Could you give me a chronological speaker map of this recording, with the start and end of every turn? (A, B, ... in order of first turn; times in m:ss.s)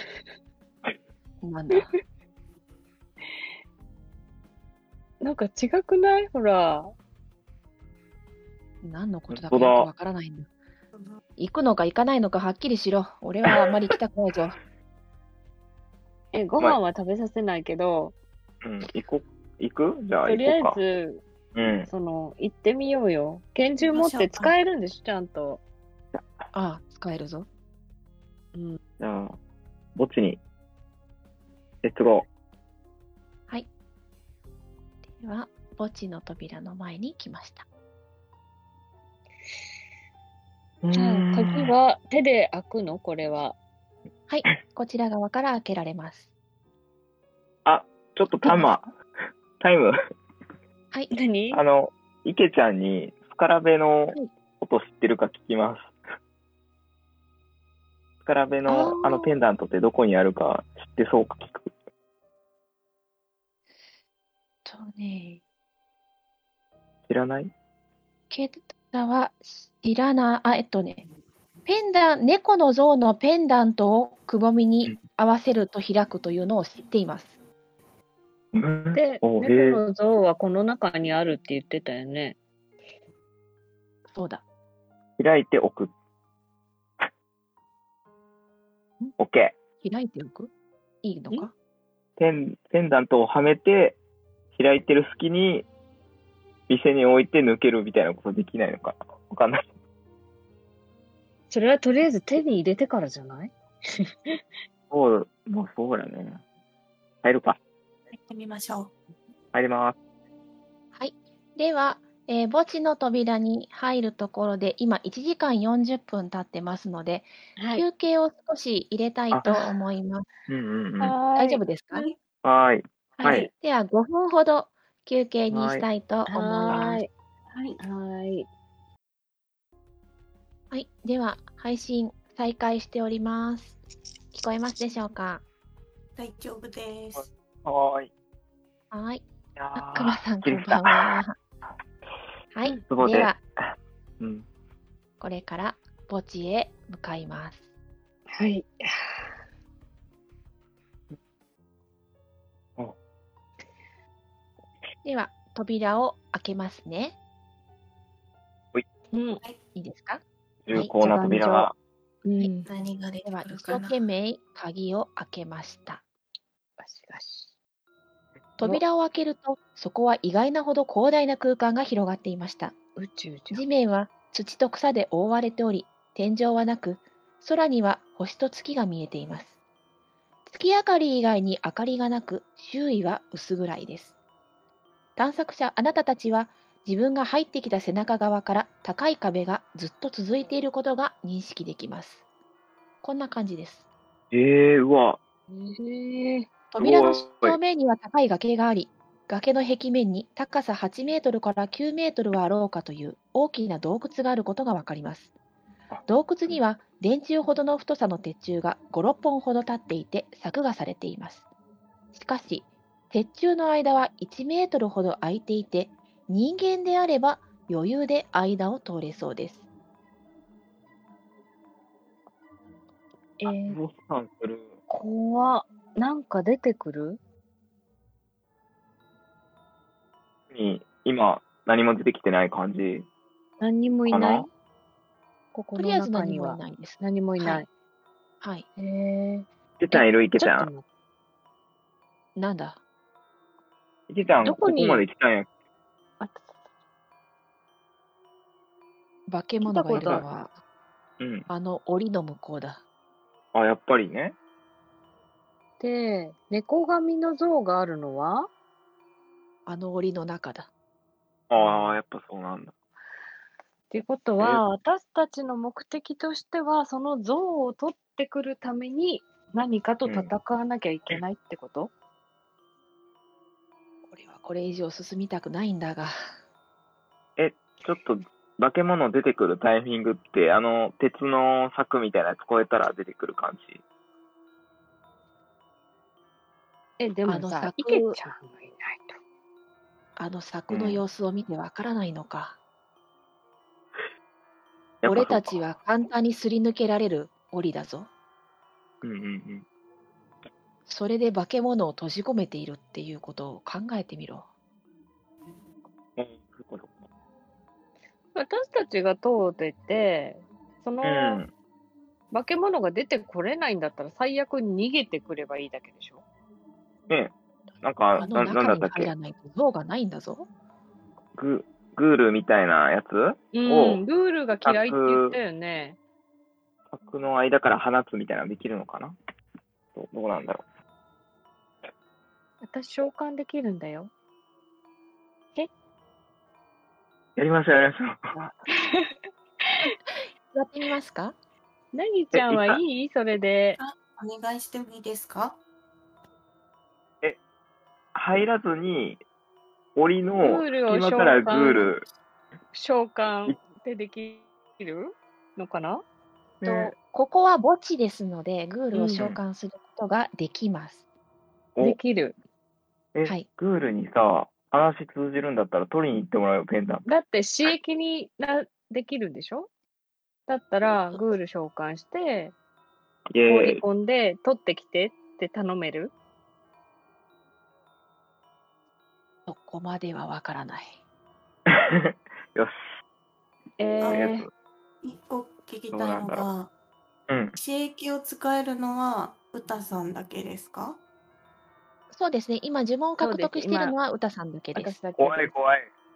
0:01.4-0:01.9 A
0:05.2-0:06.9 B
0:08.8-0:10.5 A
0:09.3-0:09.9 C
0:11.0-0:11.2 D
0:11.4-0:14.6 A
0:16.3-0:18.2 B
0:18.6-0:20.8 C
0:20.2-0:21.2 B
0:21.6-0:21.9 C
0:21.9-0:25.6 B
0:23.8-0:24.6 D
0:26.5-0:27.5 A
0:28.5-0:28.8 B
0:29.0-0:29.4 C
0:30.0-0:30.4 C
0:31.8-0:32.3 C
0:35.1-0:37.7 A
0:40.8-0:41.7 C
0:40.9-0:43.6 B
0:44.3-0:46.3 A
0:47.6-0:48.9 C
0:48.4-0:48.8 A
0:49.6-0:50.0 C
0:51.1-0:51.6 B
0:51.5-0:55.9 C
0:58.2-1:01.7 C
0:58.7-0:59.3 A
1:04.6-1:05.4 A
1:07.1-1:07.5 C
1:08.3-1:11.0 A
1:11.7-1:17.4 A
1:18.5-1:19.8 C
1:19.0-1:22.4 B
1:24.1-1:24.4 A
1:25.2-1:25.9 C
1:29.2-1:29.6 C
1:29.8-1:30.5 A
1:31.0-1:31.5 A
1:32.2-1:34.0 C
1:34.5-1:35.7 C
1:36.7-1:39.7 C
1:41.5-1:44.4 B
1:44.9-1:46.4 C
1:47.2-1:47.6 C
1:48.1-1:48.9 D
1:49.5-1:50.0 C
1:51.0-2:00.3 A
1:57.6-1:57.9 B
1:59.3-1:59.7 C
2:00.5-2:01.2 C
2:01.0-2:01.6 B
2:01.4-2:02.1 A
2:02.4-2:03.5 C
2:03.2-2:07.0 A
2:03.2-2:03.5 B
2:05.5-2:05.9 C
2:06.3-2:07.1 B
2:07.5-2:07.8 D
2:07.8-2:08.5 B
2:10.7-2:13.8 A
2:14.3-2:15.4 A
2:16.2-2:17.3 D
2:17.2-2:18.1 C
2:18.9-2:21.3 A
2:19.6-2:21.2 C
2:22.5-2:23.4 A
2:22.8-2:24.5 C
2:25.2-2:27.6 A
2:28.3-2:29.3 B
2:35.0-2:37.2 A
2:39.1-2:39.4 B
2:39.8-2:41.0 A
2:40.6-2:41.7 C
2:41.0-2:41.7 B
2:42.2-2:42.7 B
2:42.7-2:44.0 D
2:43.2-2:46.0 A
2:46.8-2:47.5 B
2:48.6-2:52.8 A
2:53.0-2:53.6 B
2:53.5-2:59.6 A
3:00.5-3:04.2 A
3:05.2-3:12.2 A
3:13.0-3:13.8 A
3:14.3-3:15.2 C
3:15.5-3:16.5 B
3:16.7-3:25.3 A
3:16.8-3:17.6 C
3:25.9-3:26.6 C
3:26.1-3:31.5 A
3:32.1-3:39.6 A
3:43.4-3:43.8 B
3:43.5-3:44.7 C
3:44.9-3:47.2 B
3:50.5-3:53.1 C
3:53.6-3:54.5 B
3:54.1-3:54.5 C
3:55.5-3:57.7 B
3:55.8-3:57.6 A
3:58.4-3:58.7 A
3:58.8-4:00.8 B
3:59.8-4:00.7 C
4:02.4-4:02.8 A
4:04.1-4:05.5 C
4:04.4-4:05.0 B
4:06.2-4:06.6 B
4:09.3-4:10.6 A
4:09.6-4:10.2 B
4:11.2-4:11.5 C
4:11.5-4:12.8 A
4:13.5-4:14.4 C
4:15.8-4:18.5 B
4:19.7-4:20.7 A
4:21.5-4:22.7 C
4:23.9-4:31.9 B
4:30.1-4:30.3 C
4:34.1-4:36.2 A
4:37.4-4:43.8 C
4:47.0-4:49.2 B
4:47.3-4:48.2 A
4:50.2-4:52.6 A
4:50.7-4:51.0 C
4:55.0-4:55.6 C
4:55.0-4:58.1 A
4:59.0-4:59.6 C
5:00.9-5:04.5 A
5:06.2-5:07.0 C
5:08.4-5:11.4 B
5:11.0-5:11.5 C
5:12.3-5:16.2 B
5:17.1-5:19.1 C
5:18.2-5:20.5 A
5:21.4-5:24.0 C
5:23.5-5:26.0 B
5:24.6-5:25.4 C
5:26.9-5:29.2 C
5:30.0-5:30.6 C
5:32.6-5:34.1 B
5:37.4-5:38.4 C
5:38.8-5:39.1 B
5:40.5-5:41.4 A
5:41.9-5:43.8 B
5:42.3-5:42.8 C
5:43.8-5:45.6 D
5:48.1-5:49.2 C
5:50.0-5:52.1 C
5:50.4-5:51.9 B
5:52.7-5:56.0 B
5:56.6-5:56.9 C
5:56.6-5:56.9 B
5:57.0-6:01.0 A
5:58.9-5:59.2 B
6:01.8-6:02.4 B
6:03.1-6:07.0 C
6:07.1-6:09.7 B
6:10.5-6:12.6 B
6:13.3-6:13.8 C
6:13.5-6:16.1 B
6:19.5-6:21.0 A
6:21.7-6:22.8 C
6:23.8-6:24.5 B
6:24.0-6:24.3 D
6:24.0-6:24.5 C
6:25.0-6:26.7 D
6:25.9-6:26.5 C
6:27.3-6:27.5 C
6:27.6-6:31.0 D
6:32.1-6:35.0 A
6:33.2-6:34.0 B
6:34.7-6:35.5 B
6:35.2-6:35.9 C